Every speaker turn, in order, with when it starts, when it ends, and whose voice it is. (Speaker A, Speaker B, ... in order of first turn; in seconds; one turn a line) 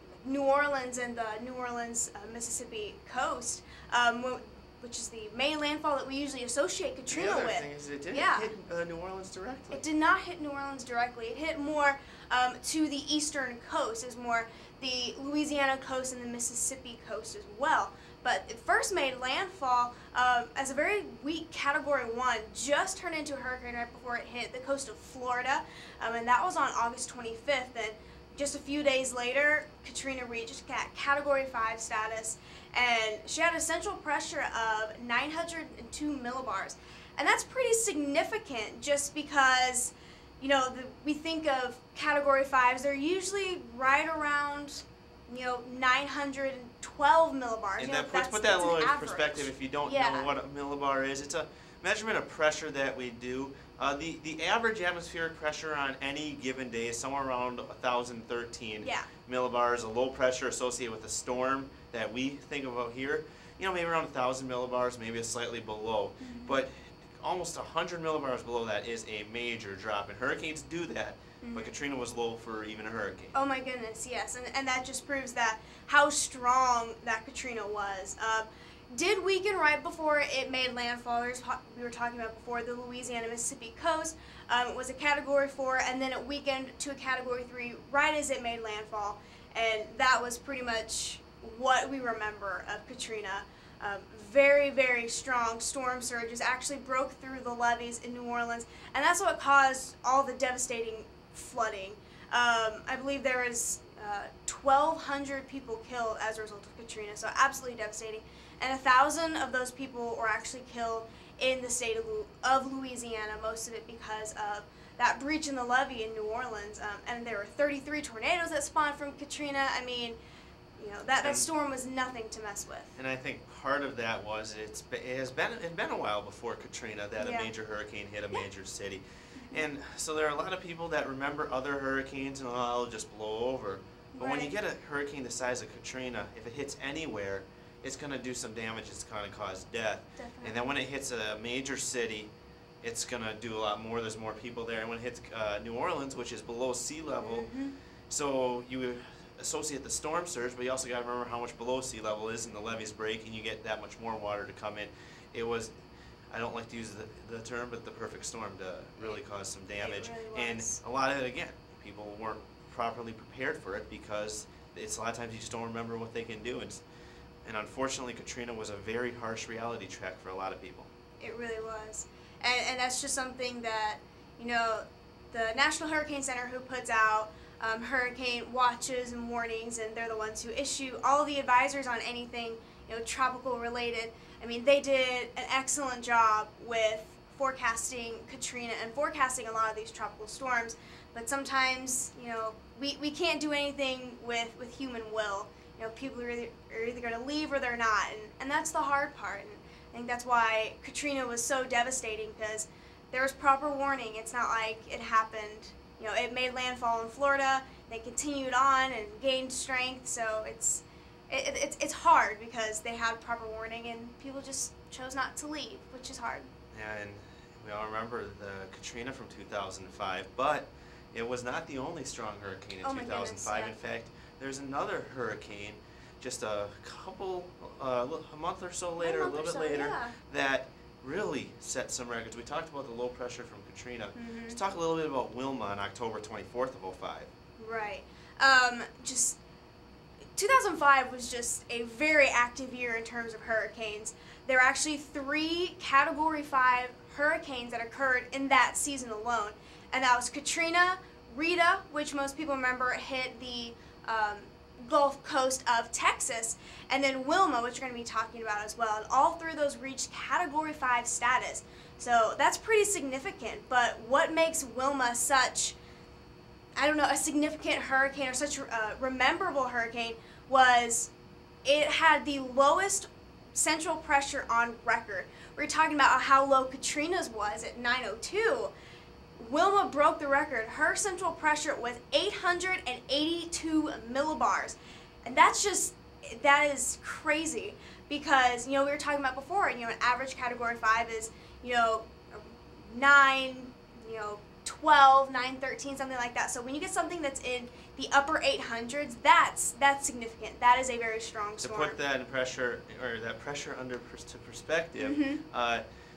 Speaker A: 0.2-8.5
Speaker B: 7.1-9.8
Speaker A: 9.7-50.3
Speaker B: 47.8-73.3
Speaker A: 58.8-59.1
Speaker A: 66.2-66.5
Speaker A: 71.4-71.7
Speaker A: 73.3-120.2
Speaker A: 120.8-123.0
Speaker B: 121.2-121.5
Speaker B: 123.0-142.3
Speaker A: 127.2-127.5
Speaker A: 134.2-134.6
Speaker A: 140.2-140.7
Speaker B: 142.8-147.5
Speaker A: 147.2-147.8
Speaker B: 148.1-155.7
Speaker B: 156.3-166.8
Speaker A: 159.8-160.8
Speaker B: 167.4-170.9
Speaker A: 171.2-216.5
Speaker B: 216.7-237.3
Speaker A: 222.8-223.8
Speaker A: 229.0-230.1
Speaker A: 234.2-234.6
Speaker A: 237.6-239.4
Speaker A: 240.4-265.8
Speaker A: 266.8-271.1
Speaker A: 271.6-278.7
Speaker A: 279.4-302.0
Speaker B: 301.6-305.9
Speaker A: 305.0-305.4